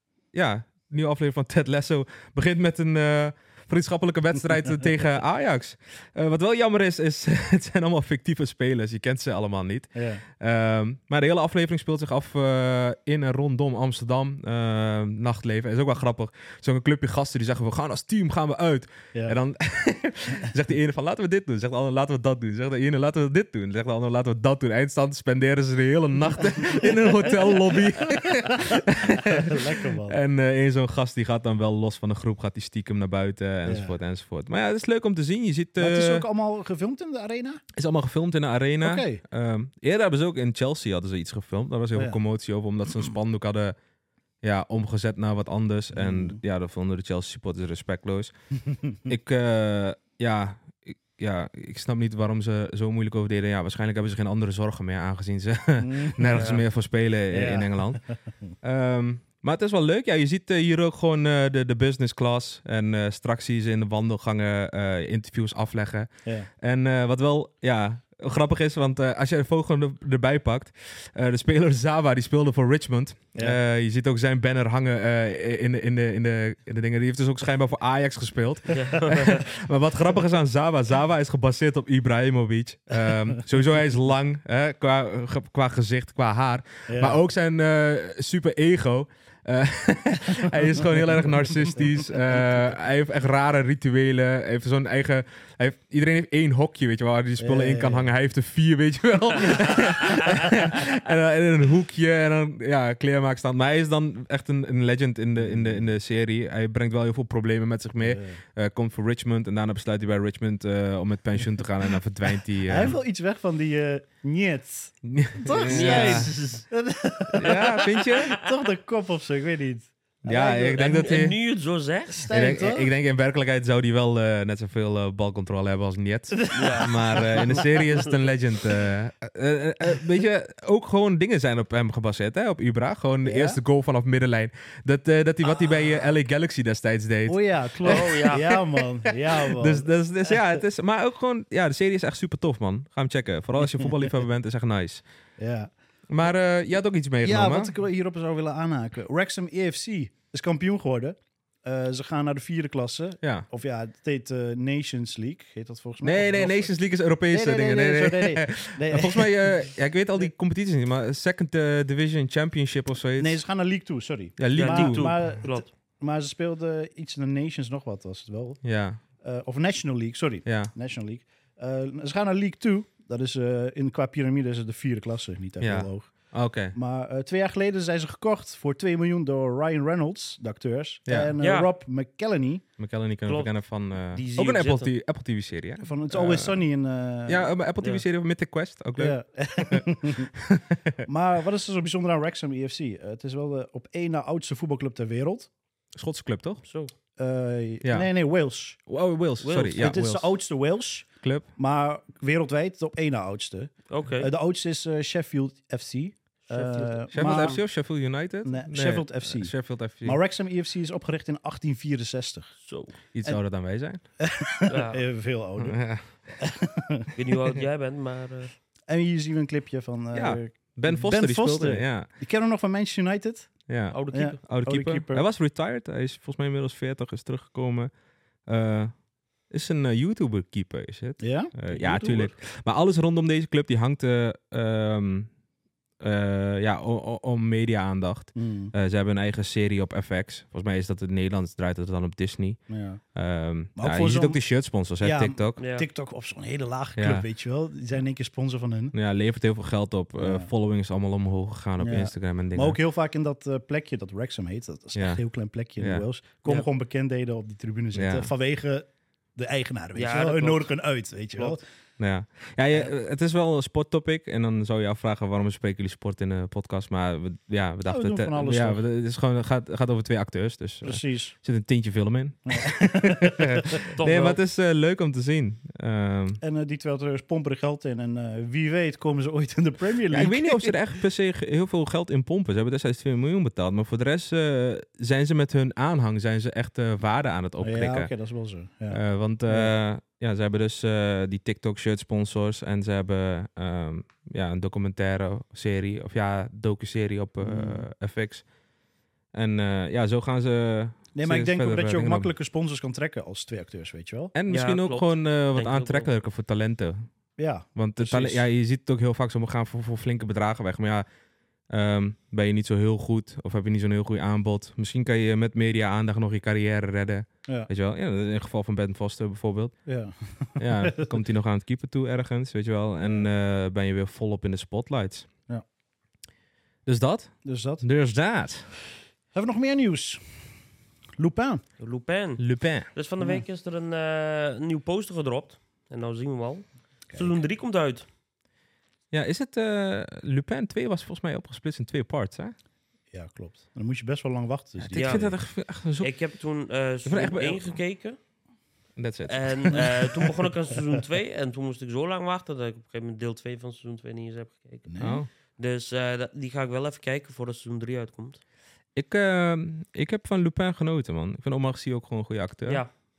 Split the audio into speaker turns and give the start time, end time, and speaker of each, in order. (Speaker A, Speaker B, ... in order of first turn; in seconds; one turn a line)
Speaker A: 0.3-36.2
Speaker B: 9.9-10.2
Speaker B: 19.1-19.4
Speaker B: 28.1-30.2
Speaker B: 33.7-34.0
Speaker B: 35.8-37.6
Speaker A: 37.7-43.8
Speaker B: 38.8-39.2
Speaker A: 44.4-48.3
Speaker B: 45.9-46.4
Speaker A: 49.0-58.0
Speaker B: 55.8-56.5
Speaker C: 56.4-56.6
Speaker B: 57.3-58.5
Speaker A: 58.6-113.0
Speaker C: 78.7-79.5
Speaker B: 86.9-87.2
Speaker B: 91.8-92.6
Speaker B: 97.4-98.1
Speaker B: 99.5-100.5
Speaker B: 105.4-105.8
Speaker B: 108.0-108.4
Speaker B: 112.7-121.0
Speaker A: 115.0-116.3
Speaker C: 115.7-116.6
Speaker A: 117.3-118.4
Speaker A: 120.2-121.4
Speaker C: 120.7-122.3
Speaker B: 122.1-122.9
Speaker A: 122.3-138.6
Speaker B: 126.4-127.7
Speaker C: 126.5-128.0
Speaker B: 133.2-133.6
Speaker B: 137.3-140.5
Speaker C: 137.8-138.5
Speaker A: 139.4-145.0
Speaker B: 145.4-145.7
Speaker A: 146.1-147.7
Speaker B: 147.2-159.6
Speaker A: 153.2-153.5
Speaker A: 156.0-163.4
Speaker B: 163.2-182.6
Speaker A: 164.4-165.2
Speaker C: 164.5-165.7
Speaker A: 168.6-169.0
Speaker A: 170.5-170.7
Speaker A: 175.6-176.8
Speaker A: 181.1-181.3
Speaker C: 181.4-181.7
Speaker A: 182.8-186.6
Speaker C: 183.3-183.5
Speaker C: 184.1-184.9
Speaker B: 185.8-187.5
Speaker A: 187.3-191.0
Speaker B: 189.0-190.3
Speaker B: 191.0-195.5
Speaker A: 195.9-196.6
Speaker C: 196.6-196.9
Speaker B: 197.2-198.8
Speaker A: 197.8-198.1
Speaker A: 198.9-200.3
Speaker C: 199.4-199.9
Speaker B: 199.8-207.8
Speaker A: 201.2-201.5
Speaker C: 203.9-204.3
Speaker C: 206.5-207.6
Speaker A: 207.1-210.2
Speaker B: 208.4-212.6
Speaker C: 212.6-212.9
Speaker A: 213.1-214.0
Speaker B: 214.2-217.1
Speaker C: 214.7-215.0
Speaker A: 215.6-216.1
Speaker C: 217.2-218.5
Speaker B: 218.9-223.5
Speaker A: 220.1-222.1
Speaker A: 223.7-227.9
Speaker C: 223.9-224.4
Speaker B: 224.1-225.2
Speaker A: 228.4-229.0
Speaker A: 229.5-235.3
Speaker B: 231.2-232.0
Speaker C: 231.7-232.3
Speaker A: 236.0-242.6
Speaker B: 238.4-238.7
Speaker B: 242.7-243.0
Speaker A: 243.1-245.6
Speaker B: 243.8-248.9
Speaker C: 245.6-245.9
Speaker A: 247.0-247.3
Speaker A: 248.9-252.8
Speaker B: 250.2-250.5
Speaker B: 251.8-261.6
Speaker A: 254.9-255.2
Speaker A: 255.8-256.1
Speaker A: 257.9-258.3
Speaker C: 259.9-260.7
Speaker A: 262.0-276.4
Speaker B: 267.9-268.8
Speaker B: 270.8-271.4
Speaker B: 272.5-273.8
Speaker C: 274.0-274.4
Speaker B: 276.4-280.8
Speaker A: 280.1-288.1
Speaker B: 287.6-289.7
Speaker A: 288.9-298.5
Speaker B: 297.4-297.9
Speaker A: 299.3-302.3
Speaker B: 301.1-304.3
Speaker A: 304.3-307.1
Speaker C: 304.5-306.1
Speaker B: 307.4-308.4
Speaker A: 307.8-311.1
Speaker A: 311.7-319.8
Speaker B: 319.9-321.1
Speaker A: 320.6-325.3
Speaker A: 326.9-328.7
Speaker B: 327.4-327.9
Speaker B: 329.3-330.5
Speaker B: 331.2-331.6
Speaker C: 331.8-338.1
Speaker A: 332.4-332.9
Speaker B: 337.1-337.4
Speaker A: 339.1-342.6
Speaker B: 343.1-345.4
Speaker A: 344.8-346.1
Speaker C: 345.0-345.3
Speaker C: 346.0-348.2
Speaker A: 347.1-347.8
Speaker A: 349.0-349.9
Speaker C: 349.3-354.9
Speaker B: 354.9-355.2
Speaker A: 355.0-355.3
Speaker C: 355.5-358.4
Speaker A: 358.9-362.8